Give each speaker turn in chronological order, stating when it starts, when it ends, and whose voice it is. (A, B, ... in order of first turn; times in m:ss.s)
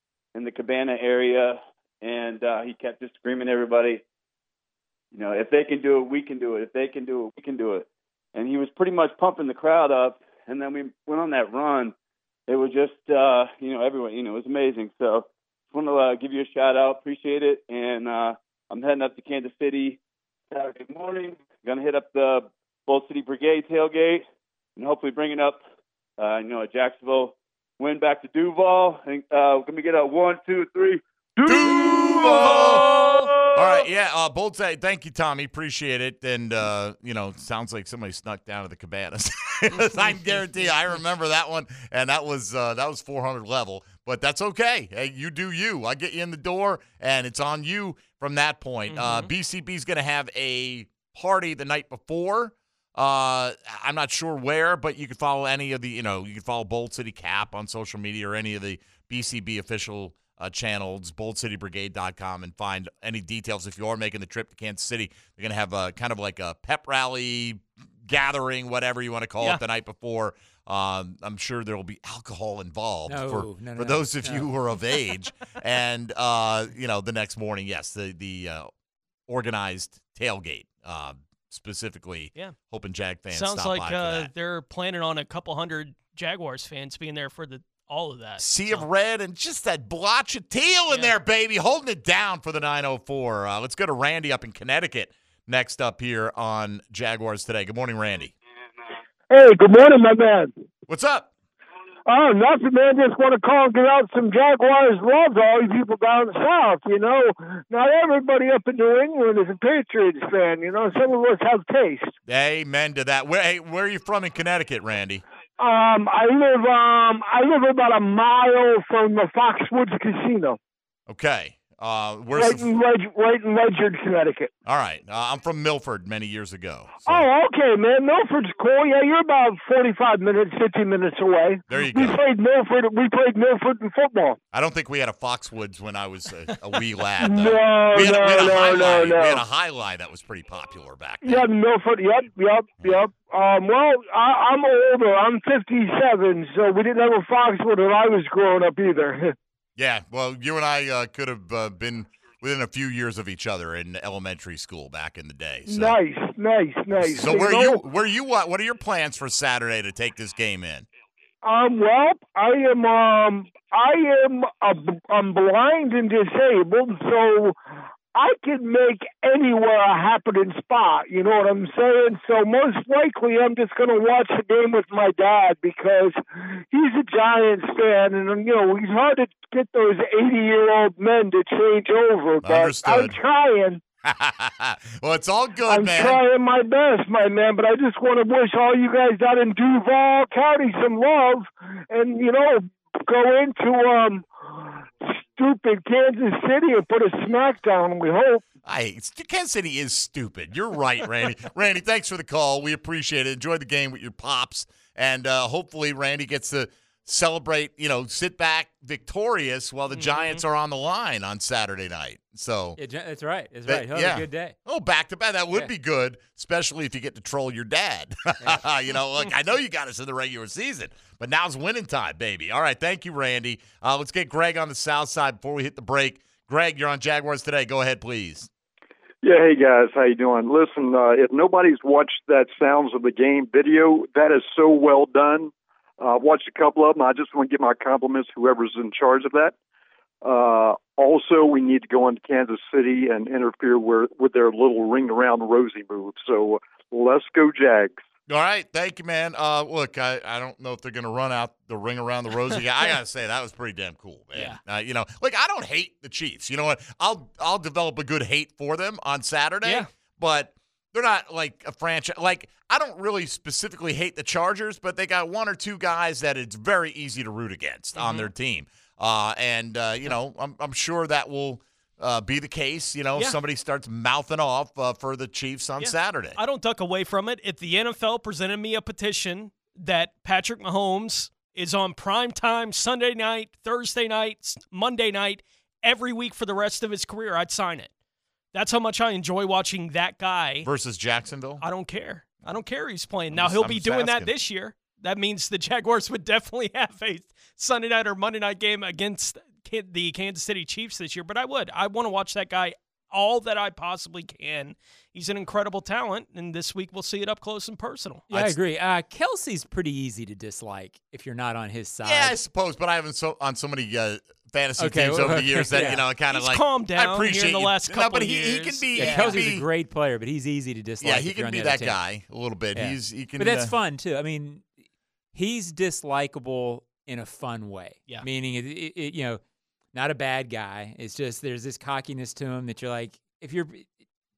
0:00.4-0:04.0 A
0:05.1-0:12.0 A
0:12.5-0:20.0 A
0:20.5-0:24.2 A
0:24.8-0:25.6 A
0:26.2-0:33.9 A
0:31.5-0:32.9 B
0:33.5-1:18.7 B
0:48.9-0:49.3 C
1:13.1-1:14.5 D
1:19.3-1:24.3 B
1:23.3-1:28.9 C
1:28.4-1:38.3 B
1:39.3-1:40.6 E
1:40.9-1:41.3 B
1:42.1-1:52.1 E
1:52.3-1:55.2 B
1:55.6-2:00.6 E
2:01.1-2:02.7 B
2:02.3-2:04.5 E
2:04.7-2:07.3 B
2:07.1-2:14.4 E
2:11.7-2:12.2 B
2:14.5-2:21.5 B
2:17.2-2:19.4 E
2:21.2-2:29.4 E
2:29.8-2:36.0 B
2:35.7-2:37.8 E
2:37.0-2:40.9 B
2:41.4-2:47.6 E
2:48.1-3:03.8 E
3:02.4-3:03.2 B
3:04.0-3:06.2 B
3:05.7-3:18.4 E
3:18.6-3:32.8 B
3:29.9-3:30.4 C
3:32.8-3:34.6 D
3:33.7-3:48.5 B
3:49.2-3:59.6 F
4:00.2-4:08.0 F
4:08.3-4:36.4 B
4:14.3-4:14.6 C
4:28.0-4:28.3 C
4:35.8-4:47.9 C
4:48.5-4:50.7 C
4:50.6-4:51.6 B
4:51.6-5:08.2 C
4:53.3-4:54.3 B
5:08.3-5:12.4 D
5:08.3-5:08.6 B
5:12.0-5:19.7 B
5:14.8-5:16.0 D
5:15.9-5:19.4 C
5:18.9-5:22.0 D
5:21.0-5:23.7 B
5:22.8-5:24.7 D
5:25.3-5:29.4 D
5:29.9-5:33.9 D